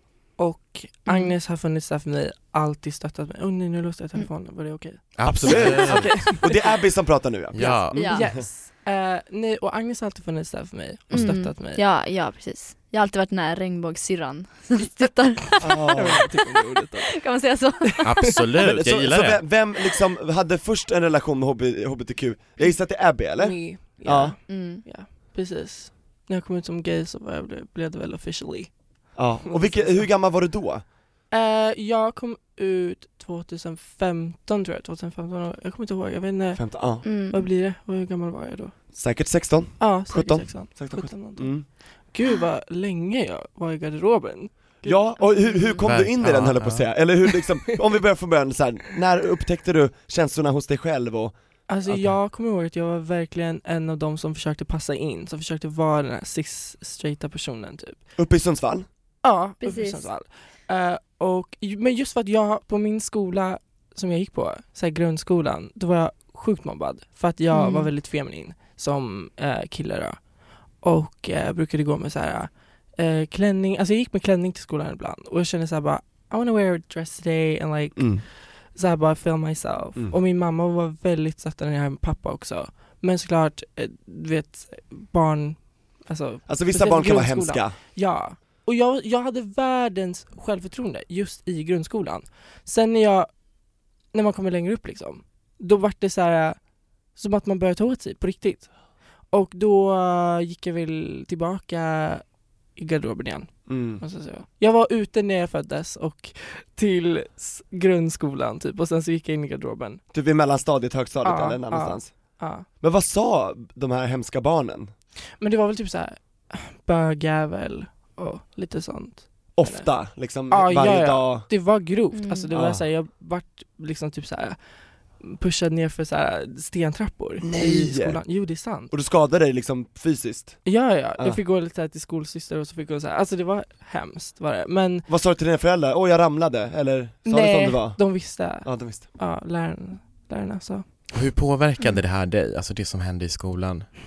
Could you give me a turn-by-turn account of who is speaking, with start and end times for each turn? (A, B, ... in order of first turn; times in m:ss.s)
0:00.4-0:06.6 A
0:01.1-0:01.3 B
0:05.2-0:06.2 C
0:05.2-0:08.4 D
0:07.5-0:08.1 C
0:07.6-0:08.2 B
0:08.1-0:11.8 A
0:11.1-0:16.2 B
0:15.6-0:16.2 D
0:15.9-0:17.2 A
0:17.0-0:18.1 B
0:17.8-0:18.4 A
0:18.0-0:19.4 C
0:18.6-0:24.4 D
0:23.4-0:28.7 A
0:24.5-0:24.8 B
0:29.2-0:30.8 D
0:29.4-0:30.1 A
0:31.3-0:38.7 A
0:36.5-0:37.0 D
0:37.0-0:37.5 B
0:38.9-0:41.7 D
0:39.8-0:45.8 A
0:44.8-0:51.3 D
0:45.8-0:46.9 C
0:47.7-0:48.0 A
0:51.7-0:58.0 A
0:58.2-0:58.8 D
0:59.2-1:10.2 A
0:59.6-1:00.1 B
1:07.5-1:07.9 B
1:10.8-1:33.3 A
1:17.9-1:18.2 D
1:26.5-1:27.8 D
1:34.1-1:36.6 A
1:37.1-1:38.7 A
1:39.3-1:50.0 A
1:43.7-1:44.0 D
1:50.1-1:52.1 D
1:51.2-1:52.6 A
1:52.8-1:54.9 D
1:55.4-1:59.9 A
1:59.6-2:01.5 D
2:00.5-2:04.6 A
2:02.1-2:02.5 B
2:02.5-2:02.8 D
2:05.2-2:08.9 A
2:07.4-2:08.2 D
2:08.9-2:11.4 D
2:10.6-2:15.1 A
2:15.1-2:19.1 D
2:17.2-2:20.8 A
2:21.1-2:23.9 C